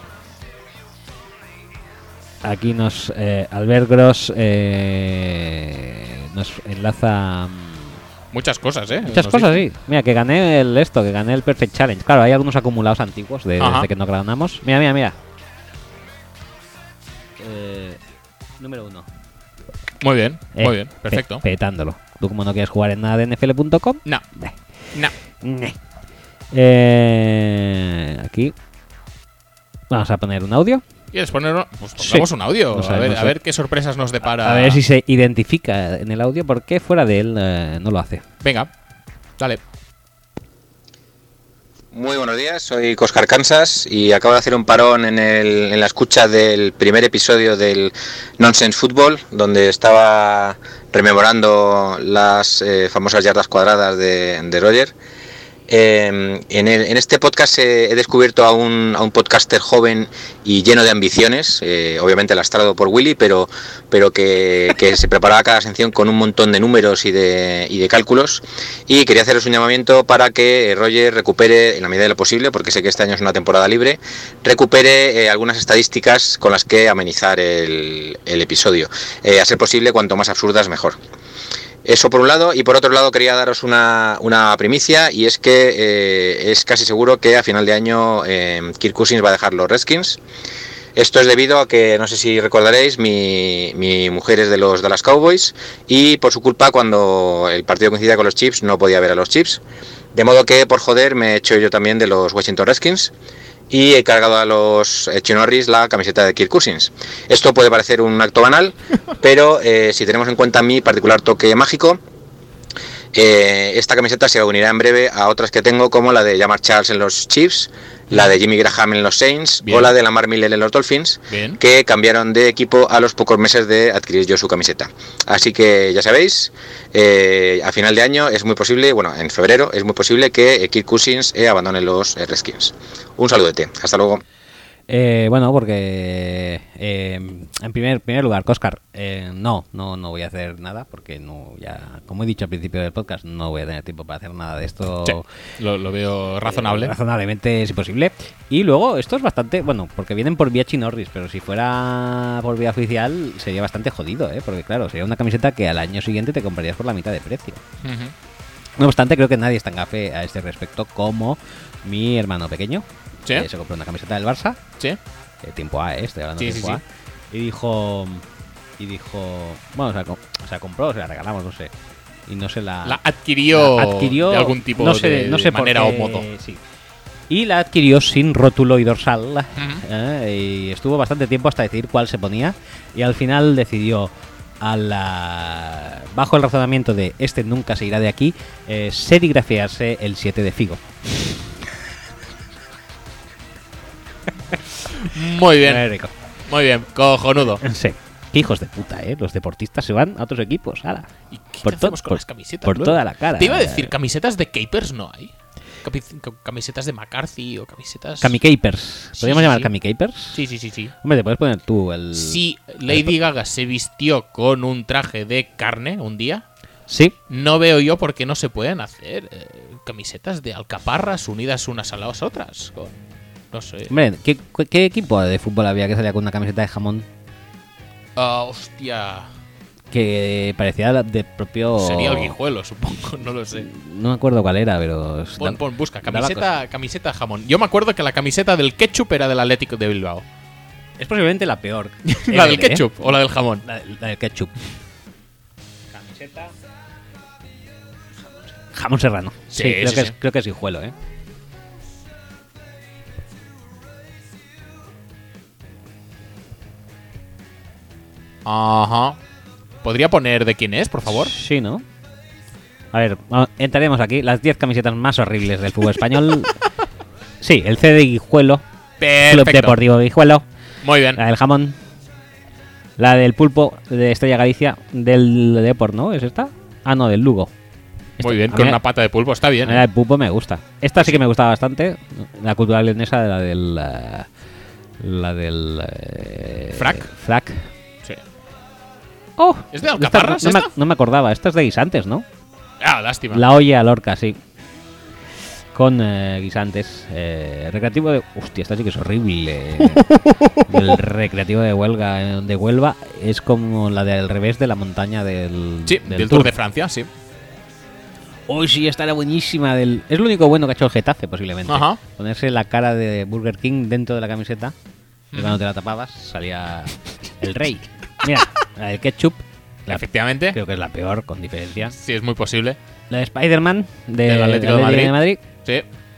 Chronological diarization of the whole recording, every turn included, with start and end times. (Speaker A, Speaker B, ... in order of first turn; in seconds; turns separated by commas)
Speaker A: 2.4-8.0, Speaker B: 8.3-9.6, Speaker A: 9.0-15.2, Speaker B: 13.6-13.9, Speaker A: 17.4-18.0, Speaker A: 18.6-19.1, Speaker B: 20.0-21.4, Speaker A: 20.6-24.6, Speaker A: 25.4-25.8, Speaker A: 26.5-28.6, Speaker A: 29.9-30.8, Speaker B: 31.1-34.8, Speaker A: 32.0-33.4, Speaker A: 34.2-38.2, Speaker B: 38.4-38.7, Speaker C: 41.9-54.9, Speaker C: 55.7-81.0, Speaker C: 81.8-90.2, Speaker C: 91.0-99.6, Speaker C: 100.1-103.1, Speaker C: 103.7-112.0, Speaker C: 113.1-134.2, Speaker B: 119.6-119.9, Speaker B: 121.3-121.6, Speaker A: 134.9-145.3, Speaker B: 145.1-146.9, Speaker A: 146.4-157.6, Speaker B: 157.8-158.1, Speaker A: 158.8-164.6, Speaker A: 165.4-168.2, Speaker B: 166.4-166.8, Speaker A: 168.8-171.7, Speaker A: 172.3-173.0, Speaker B: 172.8-176.3, Speaker A: 173.5-176.6, Speaker A: 177.3-191.5, Speaker B: 179.6-179.8, Speaker B: 195.0-195.9, Speaker A: 195.6-196.1, Speaker B: 196.5-197.6, Speaker A: 197.6-201.1, Speaker B: 201.3-208.4, Speaker A: 201.6-203.9, Speaker A: 208.2-210.4, Speaker B: 209.2-209.7, Speaker B: 210.3-210.9, Speaker A: 211.0-213.2, Speaker B: 212.2-216.4, Speaker A: 216.9-217.2, Speaker B: 217.3-223.0, Speaker B: 223.5-223.9, Speaker A: 223.9-227.1, Speaker B: 228.2-229.3, Speaker A: 229.9-232.3, Speaker B: 231.8-233.7, Speaker A: 233.6-236.5, Speaker B: 235.4-240.2, Speaker A: 241.0-243.1, Speaker B: 242.1-243.6, Speaker A: 243.6-244.6, Speaker A: 245.9-246.6, Speaker A: 248.2-250.9, Speaker B: 249.5-250.2, Speaker B: 258.4-259.2, Speaker B: 259.8-261.4, Speaker A: 261.1-261.9, Speaker A: 262.9-266.6, Speaker A: 267.4-268.6, Speaker B: 269.0-269.8, Speaker A: 269.2-270.5, Speaker B: 270.8-271.2, Speaker A: 271.1-271.8, Speaker A: 273.0-277.5, Speaker A: 278.2-278.8, Speaker B: 278.2-279.9, Speaker A: 279.6-284.3, Speaker A: 285.0-287.7, Speaker B: 286.7-287.1, Speaker A: 289.4-292.3, Speaker B: 289.7-290.7, Speaker B: 292.8-293.4, Speaker A: 293.3-294.4, Speaker A: 295.7-300.1, Speaker B: 299.8-300.9, Speaker A: 300.7-306.5, Speaker B: 305.9-307.1, Speaker A: 308.5-314.7, Speaker B: 311.7-312.0, Speaker B: 315.3-315.6, Speaker A: 315.4-321.9, Speaker B: 319.9-320.6, Speaker B: 321.9-322.8, Speaker A: 323.1-325.4, Speaker B: 324.2-325.9